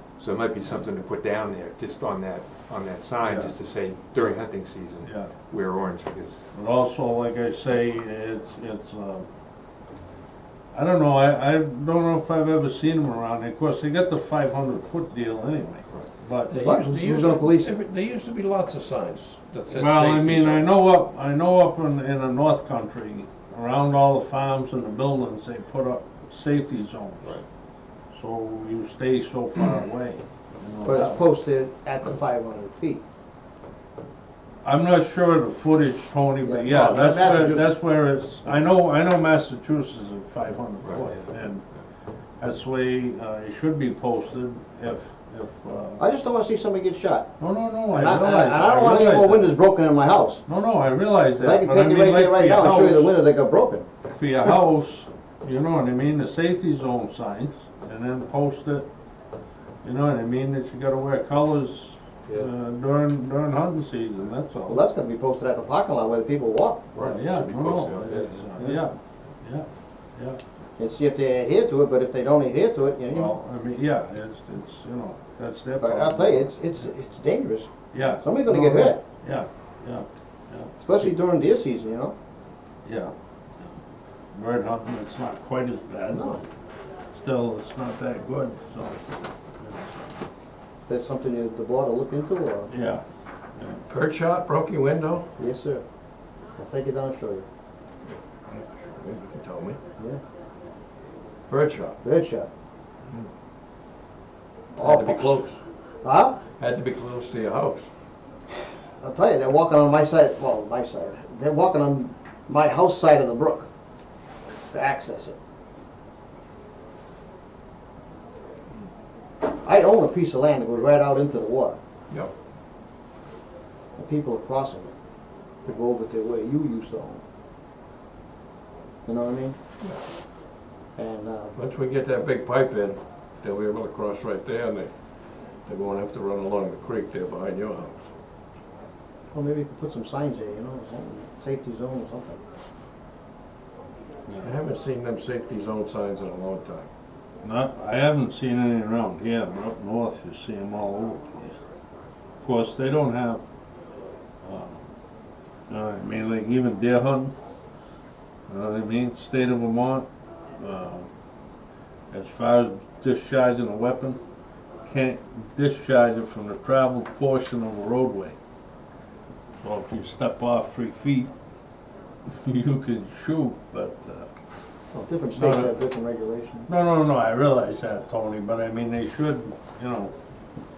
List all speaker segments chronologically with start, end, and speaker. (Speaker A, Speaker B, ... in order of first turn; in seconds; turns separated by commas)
Speaker A: 0.2-6.4, Speaker B: 5.0-5.3, Speaker B: 6.5-9.3, Speaker B: 10.7-16.5, Speaker C: 16.5-20.7, Speaker D: 16.6-17.7, Speaker B: 19.7-27.3, Speaker B: 28.1-31.2, Speaker D: 30.8-33.0, Speaker B: 34.6-41.6, Speaker D: 36.4-37.6, Speaker B: 42.4-46.0, Speaker D: 46.0-47.3, Speaker B: 47.4-49.5, Speaker D: 47.9-50.4, Speaker B: 50.5-53.1, Speaker D: 51.4-53.9, Speaker B: 54.0-58.9, Speaker B: 59.8-64.8, Speaker D: 64.7-66.9, Speaker C: 66.9-68.7, Speaker B: 67.0-70.4, Speaker D: 68.6-68.8, Speaker D: 70.8-73.3, Speaker B: 73.1-76.5, Speaker D: 75.8-79.0, Speaker B: 77.9-81.1, Speaker D: 80.8-82.1, Speaker B: 82.8-83.1, Speaker B: 84.3-86.5, Speaker D: 86.1-86.4, Speaker B: 87.1-90.1, Speaker D: 90.9-92.7, Speaker B: 92.7-93.0, Speaker B: 93.5-93.8, Speaker C: 93.9-95.3, Speaker D: 95.4-95.8, Speaker D: 96.6-97.4, Speaker C: 98.5-99.8, Speaker C: 101.5-102.0, Speaker D: 102.0-102.5, Speaker D: 104.8-105.3, Speaker C: 104.8-105.6, Speaker D: 106.0-106.4, Speaker C: 106.6-107.9, Speaker D: 109.0-113.7, Speaker D: 114.7-115.3, Speaker D: 119.6-121.8, Speaker D: 124.0-124.9, Speaker D: 125.6-127.2, Speaker D: 129.1-129.6, Speaker D: 130.9-131.5, Speaker C: 131.5-134.9, Speaker C: 135.7-138.1, Speaker D: 139.3-142.4, Speaker C: 144.4-146.9, Speaker B: 147.4-151.6, Speaker B: 152.4-153.4, Speaker B: 154.4-154.8, Speaker B: 155.7-157.3, Speaker B: 158.5-161.1, Speaker B: 162.1-164.2, Speaker B: 164.8-168.3, Speaker B: 169.6-171.3, Speaker B: 172.3-174.3, Speaker D: 174.9-176.7, Speaker B: 175.4-175.7, Speaker B: 176.7-180.1